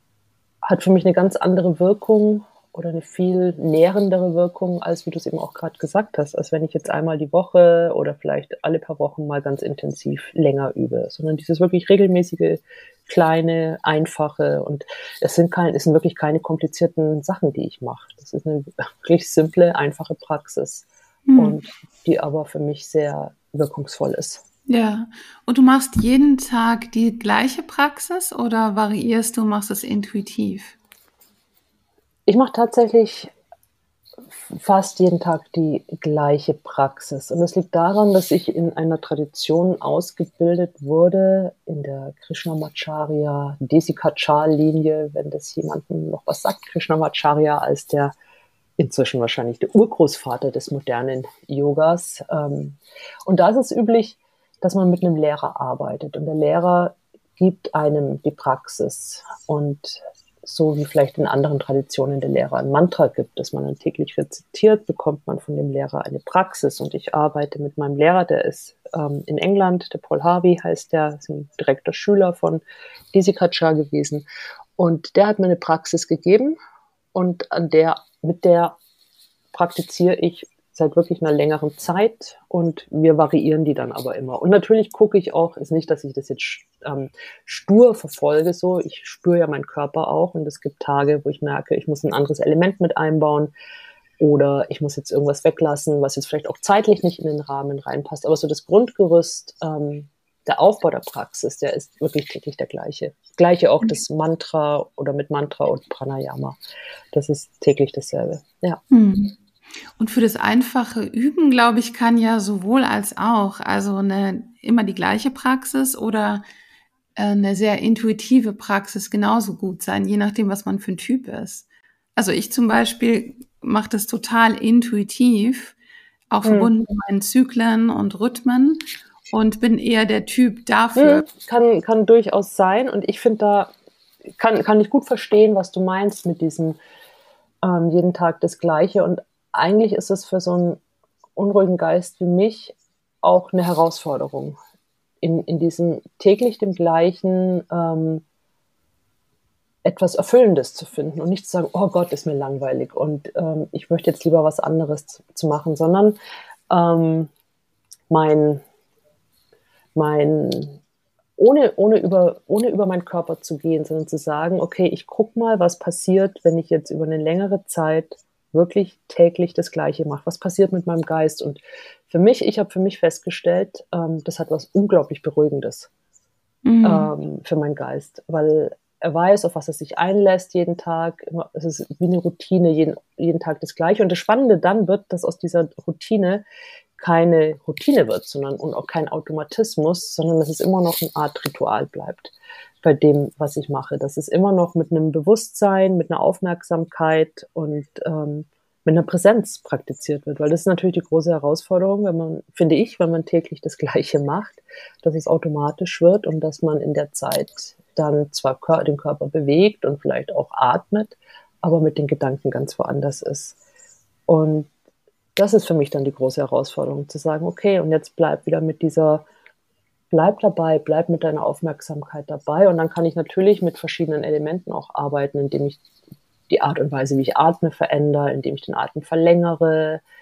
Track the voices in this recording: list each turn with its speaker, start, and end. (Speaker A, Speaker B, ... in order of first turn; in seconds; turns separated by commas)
Speaker A: 0.7-24.4, Speaker B: 21.3-21.6, Speaker B: 24.7-30.8, Speaker A: 32.3-33.3, Speaker A: 34.5-48.1, Speaker A: 48.8-72.6, Speaker A: 73.1-74.2, Speaker A: 74.8-76.6, Speaker A: 77.1-78.8, Speaker A: 79.5-93.5, Speaker A: 94.2-106.6, Speaker A: 107.1-108.8, Speaker B: 108.9-109.4, Speaker B: 110.0-116.4, Speaker B: 117.2-125.8, Speaker B: 126.3-128.8, Speaker A: 126.5-126.7, Speaker B: 129.3-131.3, Speaker A: 131.0-133.7, Speaker A: 134.4-136.8, Speaker A: 137.6-140.8, Speaker A: 141.4-144.6, Speaker A: 145.2-148.2, Speaker A: 149.8-156.2, Speaker A: 156.7-157.3, Speaker A: 158.1-158.6, Speaker A: 159.9-160.8, Speaker A: 161.4-175.9, Speaker B: 176.7-177.1, Speaker A: 176.8-186.4, Speaker A: 187.0-213.6, Speaker A: 214.3-214.7, Speaker A: 215.4-219.2, Speaker A: 220.1-225.8, Speaker A: 226.5-230.0